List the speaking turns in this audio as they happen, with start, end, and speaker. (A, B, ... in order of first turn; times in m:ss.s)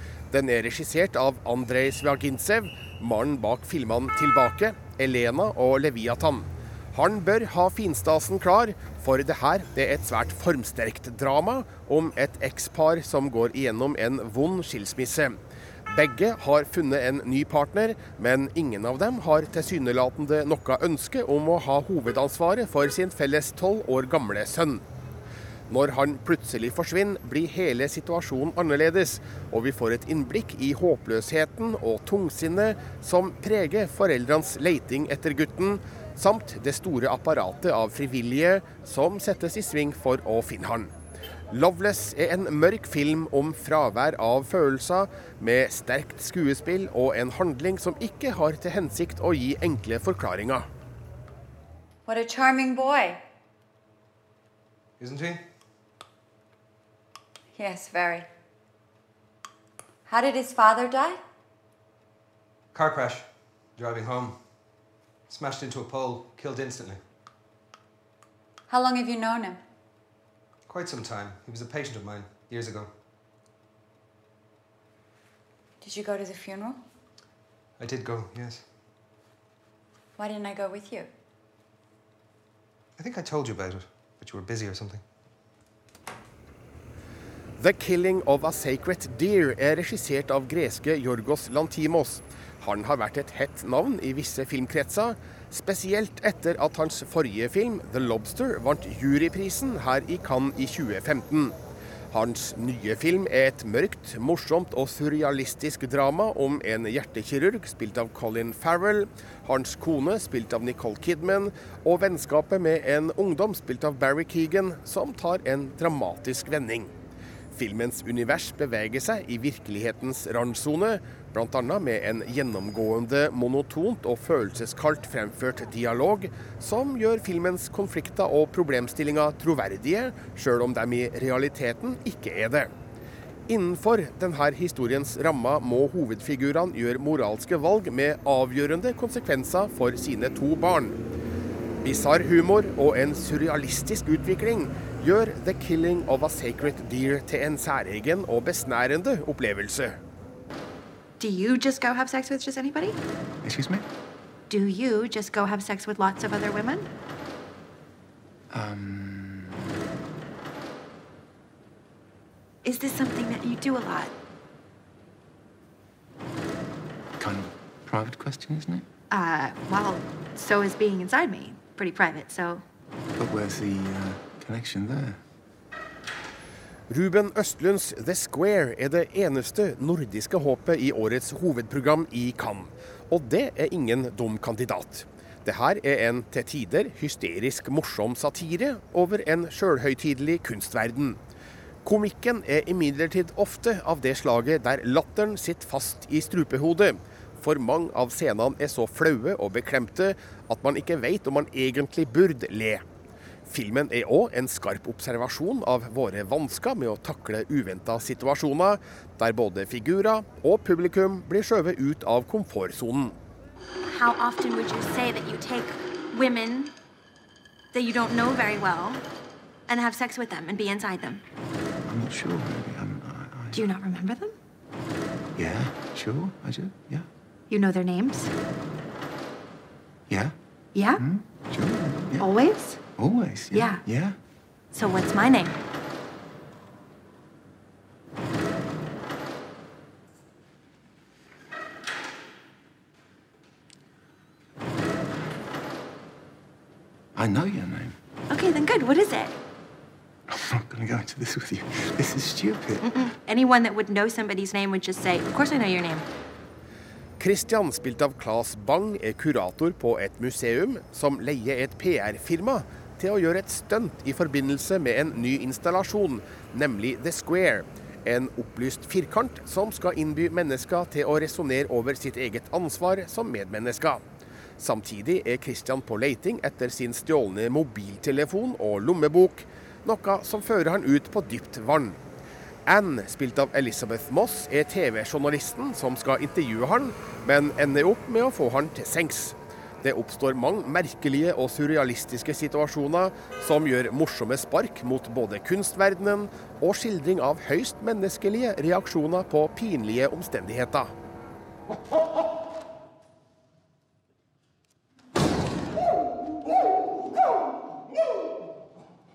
0:00.3-0:24.8 A
0:25.7-0:40.9 A
0:41.5-0:50.7 A
0:52.1-0:53.2 B
0:55.0-0:55.4 C
0:57.6-0:58.3 B
1:00.1-1:01.2 B
1:02.7-1:04.4 C
1:05.3-1:07.0 C
1:08.7-1:09.6 B
1:10.7-1:12.9 C
1:15.8-1:16.8 B
1:17.8-1:18.6 C
1:20.2-1:21.1 B
1:23.0-1:25.0 C
1:27.6-1:41.5 A
1:42.1-1:56.9 A
1:57.5-2:12.7 A
2:13.5-2:21.0 A
2:21.8-2:30.0 A
2:31.2-2:33.0 D
2:33.4-2:33.9 E
2:34.5-2:36.9 D
2:38.5-2:39.8 E
2:42.6-2:44.1 D
2:47.2-2:48.9 E
2:49.1-2:52.6 D
2:53.2-2:55.2 E
2:56.9-3:11.2 A
3:11.8-3:22.8 A
3:23.5-3:33.2 A
3:33.9-3:36.7 D
3:37.7-3:39.0 D
3:39.7-3:41.2 D
3:41.9-3:43.6 E
3:43.5-3:44.4 D
3:45.4-3:47.1 E
3:47.5-3:48.3 D
3:50.1-3:50.4 E
3:50.7-3:51.0 D
3:51.0-3:52.3 E
3:52.2-3:52.8 D
3:53.0-3:54.2 E
3:53.5-3:53.9 D
3:54.7-3:55.6 D
4:07.2-4:08.0 E
4:08.3-4:09.4 D
4:10.3-4:12.9 E
4:12.8-4:16.1 D
4:17.2-4:34.0 A
4:34.6-4:42.0 A
4:42.7-5:00.9 A